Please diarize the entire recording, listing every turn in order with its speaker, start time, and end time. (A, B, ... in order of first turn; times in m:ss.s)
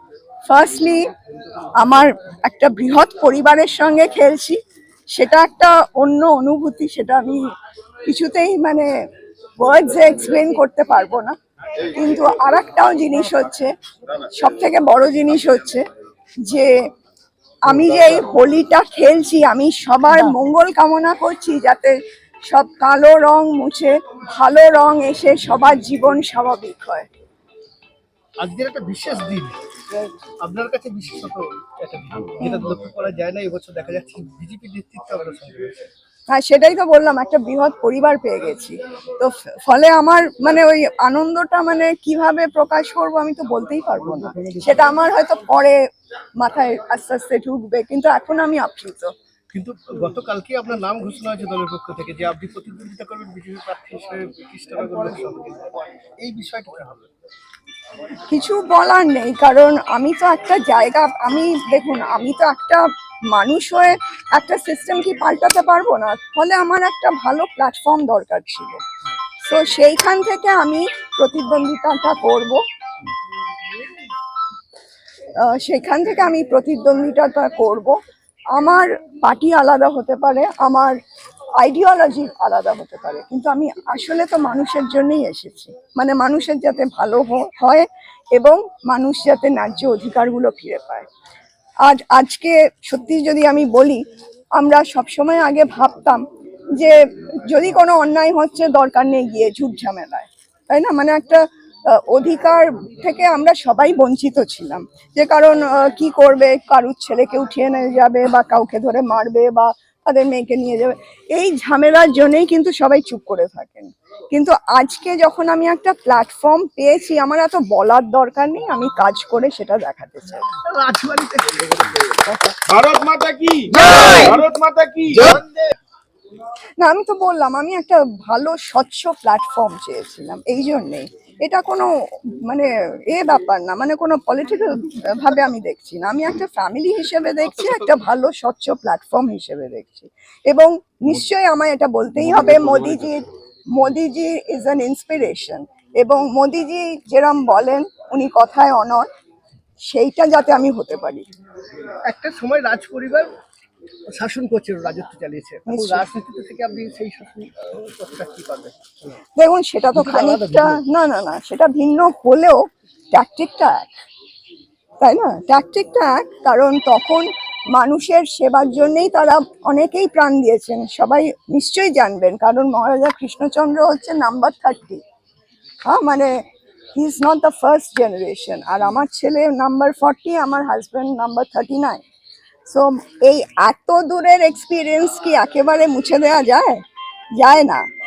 0:00.5-0:01.0 A
0:01.8-0:04.6 A
0:05.1-0:07.4 A
0:08.1-0:08.9 A
0:09.6-0:15.8 A
0:16.4-0:16.7 A
0:17.6-0:27.1 A
0:28.4-0:35.7 B
0:36.3-0:45.8 A
0:46.4-0:49.1 A
0:49.5-0:57.1 B
0:58.3-1:08.8 A
1:09.4-1:12.6 A
1:15.4-1:18.0 A
1:18.5-1:21.0 A
1:21.6-1:31.1 A
1:31.8-1:34.0 A
1:34.6-1:36.2 A
1:36.7-2:00.5 A
2:00.6-2:02.7 B
2:02.7-2:05.2 C
2:03.9-2:04.3 B
2:05.1-2:05.5 B
2:06.8-2:29.1 A
2:29.9-2:31.2 A
2:32.0-2:33.3 B
2:34.1-2:39.2 B
2:35.7-2:36.1 A
2:39.4-2:43.9 A
2:39.9-2:40.8 B
2:45.0-2:55.0 A
2:55.8-2:56.4 A
2:56.9-3:02.0 A
3:02.6-3:06.8 A
3:07.4-3:07.8 A